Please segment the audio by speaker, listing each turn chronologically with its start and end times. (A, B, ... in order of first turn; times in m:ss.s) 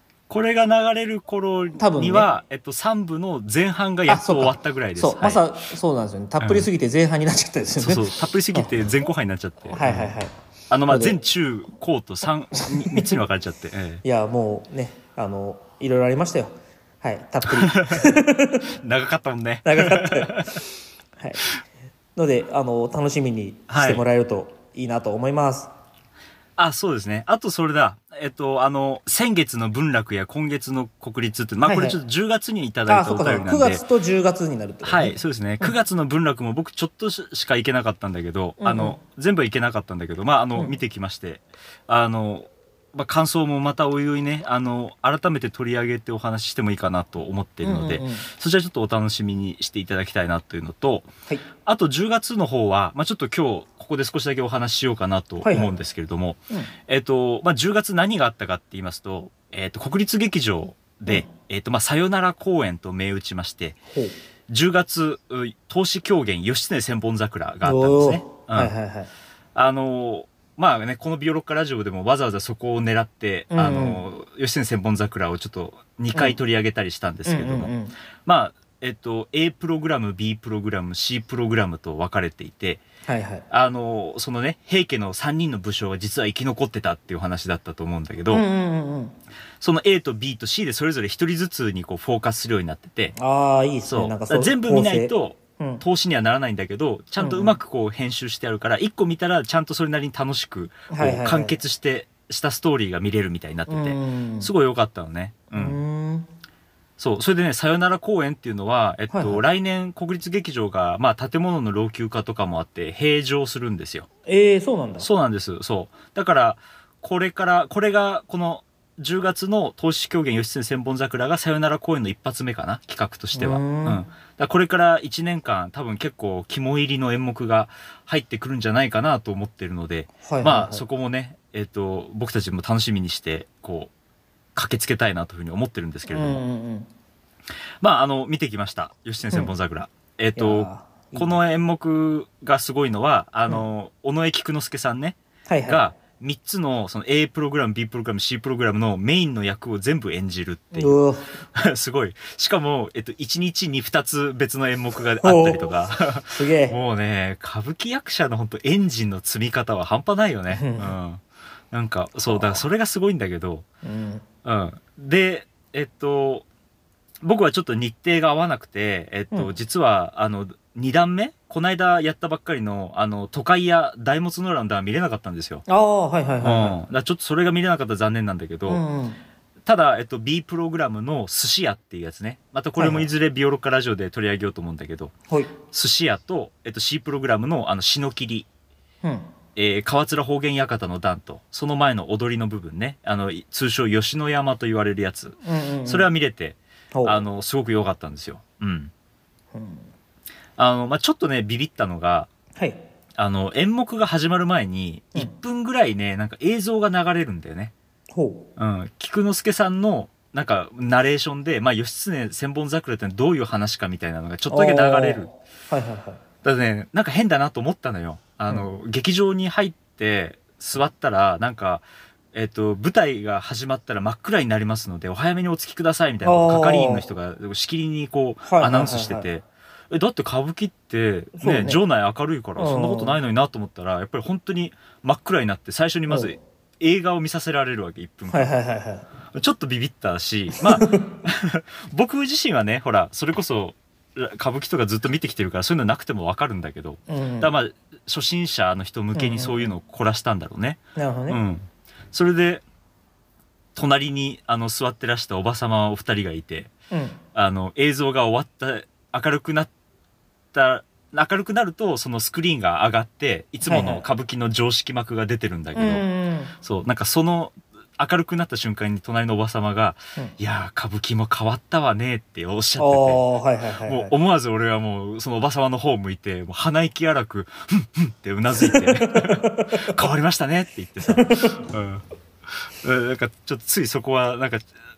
0:00.3-0:05.4 A
0:01.8-0:02.3 B
0:04.1-0:08.7 B
0:06.4-0:06.7 A
0:07.8-0:10.1 A
0:09.7-0:10.3 B
0:10.7-0:14.0 A
0:10.9-0:11.2 B
0:12.6-0:13.1 B
0:14.0-0:18.7 B
0:17.5-0:18.1 A
0:18.7-0:20.6 A
0:19.6-0:20.7 B
0:21.2-0:21.5 B
0:22.2-0:25.7 B
0:23.7-0:24.0 A
0:26.6-0:33.8 A
0:31.6-0:32.0 B
0:32.9-0:35.7 B
0:34.8-0:51.1 A
0:38.6-0:39.0 B
0:47.6-0:48.3 B
0:51.6-1:03.8 A
0:55.4-0:55.7 B
1:03.9-1:04.2 B
1:04.5-1:08.7 A
1:07.6-1:09.1 B
1:09.6-1:17.7 A
1:13.5-1:14.0 B
1:17.3-1:18.0 B
1:18.2-1:22.8 A
1:23.1-1:23.5 B
1:23.5-1:28.4 A
1:28.3-1:29.2 B
1:29.6-1:33.2 A
1:33.2-1:35.8 B
1:33.9-1:45.8 A
1:37.2-1:37.6 B
1:40.9-1:41.6 B
1:43.7-1:44.5 B
1:45.5-1:46.3 B
1:47.0-1:54.1 A
1:49.1-1:49.4 B
1:54.3-1:55.1 B
1:55.0-2:13.9 A
2:03.3-2:04.0 B
2:10.2-2:10.8 B
2:14.6-2:16.4 A
2:16.1-2:16.9 B
2:17.8-2:31.0 A
2:20.4-2:21.4 B
2:25.5-2:25.8 B
2:30.7-2:31.3 B
2:31.5-2:43.7 A
2:35.2-2:35.8 B
2:36.3-2:36.8 B
2:40.5-2:41.0 B
2:42.3-2:42.6 B
2:43.8-2:44.2 B
2:44.4-2:46.5 A
2:47.2-2:55.6 A
2:55.7-2:56.8 B
2:56.4-2:58.8 A
2:58.7-2:59.2 B
2:59.6-3:05.1 A
3:02.8-3:03.1 B
3:05.7-3:08.5 A
3:09.0-3:09.3 B
3:09.6-3:18.9 A
3:15.4-3:16.1 B
3:16.9-3:17.2 B
3:19.5-3:19.9 B
3:20.6-3:22.3 A
3:22.6-3:22.8 B
3:23.2-3:27.7 A
3:28.1-3:28.5 B
3:28.6-3:35.3 A
3:34.5-3:36.2 B
3:36.4-3:58.4 A
3:46.2-3:47.1 B
3:48.4-3:49.3 B
3:51.4-3:51.8 B
3:52.6-3:53.2 B
3:58.3-3:59.1 B
3:59.3-4:12.6 A
4:00.6-4:01.2 B
4:07.1-4:07.5 B
4:09.1-4:09.7 B
4:11.0-4:11.4 B
4:13.8-4:16.7 A
4:16.9-4:17.2 B
4:17.4-4:19.7 A
4:20.5-4:26.0 A
4:23.6-4:24.0 B
4:25.7-4:26.6 B
4:26.6-4:33.2 A
4:32.8-4:34.1 B
4:33.8-4:44.7 A
4:38.6-4:40.0 B
4:41.1-4:41.6 B